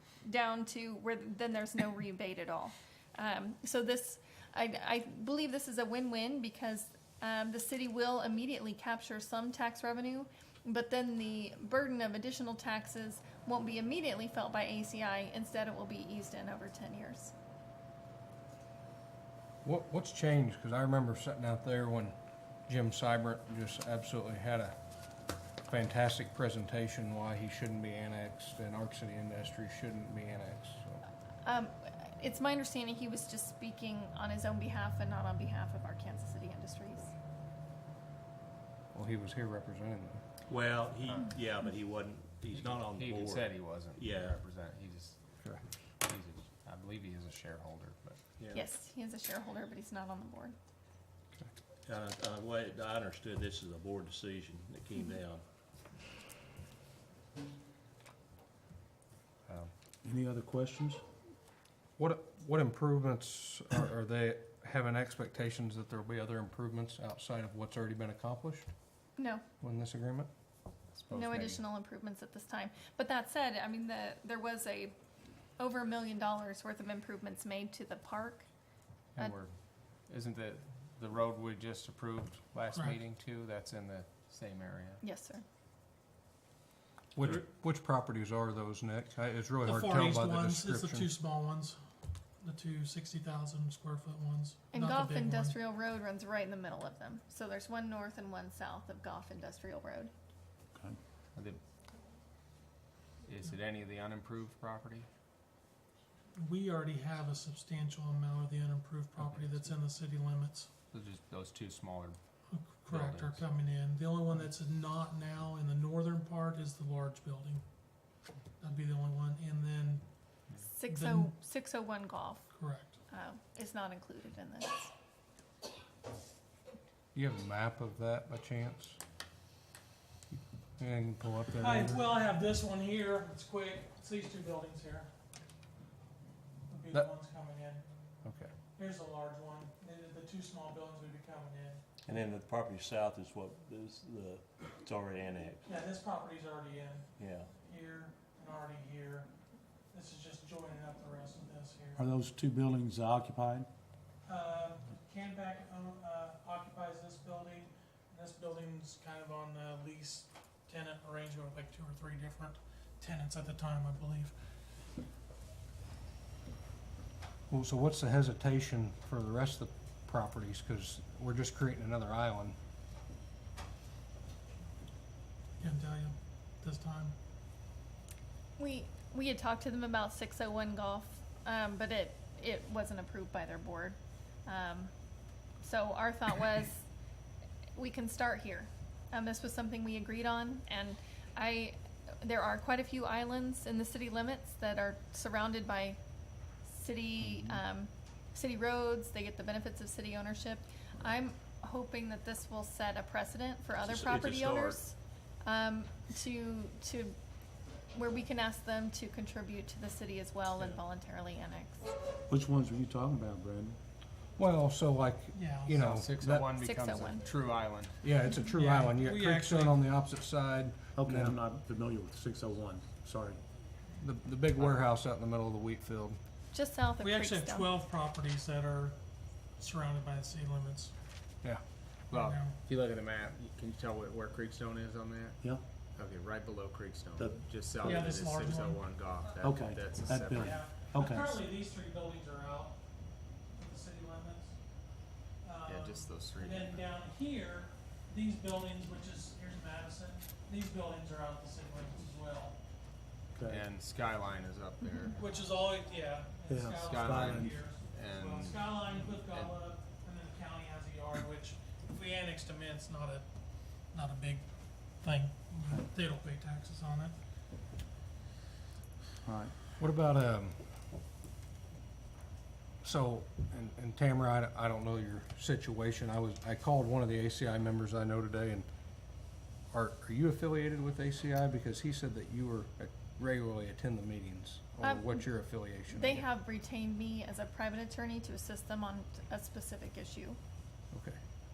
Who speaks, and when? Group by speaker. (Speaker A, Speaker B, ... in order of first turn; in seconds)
Speaker A: 0.2-17.3, 31.4-37.1, 48.5-50.5, 69.2-69.4, 71.1-74.9, 75.6-78.5, 85.0-85.5, 94.7-100.1, 120.7-122.5, 123.1-124.9, 178.6-184.9, 185.6-186.9, 187.8-196.0, 196.6-207.2, 207.9-211.9, 216.5-217.2, 226.5-227.7, 284.8-290.4
Speaker B: 19.6-22.1, 22.7-24.8, 25.7-31.0, 38.9-40.2, 62.0-68.7, 69.6-70.3, 87.2-91.1, 127.1-129.0, 130.3-132.0, 138.2-138.5, 167.5-172.6, 214.4-216.3, 218.0-221.4, 224.0-226.2, 269.8-270.6, 272.8-278.7, 279.7-286.2, 290.9-291.2
Speaker C: 40.5-44.4, 51.9-55.4, 142.1-145.7, 147.2-147.5, 203.8-204.8
Speaker D: 42.5-45.2, 46.0-48.4, 71.0-71.6, 79.2-79.5, 80.1-85.0, 101.3-101.6, 103.2-105.1, 109.2-109.6, 110.9-112.2, 112.9-113.4, 215.8-218.0, 224.6-224.8, 232.1-240.9, 245.7-246.8, 253.5-255.2, 256.8-259.6
Speaker E: 60.0-61.0, 152.0-153.7, 212.3-213.8, 216.2-216.5, 220.9-223.4, 239.4-241.4, 253.3-253.6, 256.5-257.6, 269.2-269.5
Speaker F: 82.7-83.0, 89.6-91.8, 92.4-95.5, 106.3-110.7, 112.5-117.6, 118.6-120.0, 120.9-121.3, 122.5-123.0, 131.5-135.1, 136.7-137.8, 138.8-141.8, 145.7-149.3, 149.9-152.1, 154.3-164.3, 175.6-177.2, 215.3-215.8, 218.3-219.9, 227.0-229.0, 229.6-230.9, 232.1-232.6, 237.8-238.9, 240.3-242.8, 243.5-244.6, 245.4-252.6, 255.1-263.3, 263.9-267.2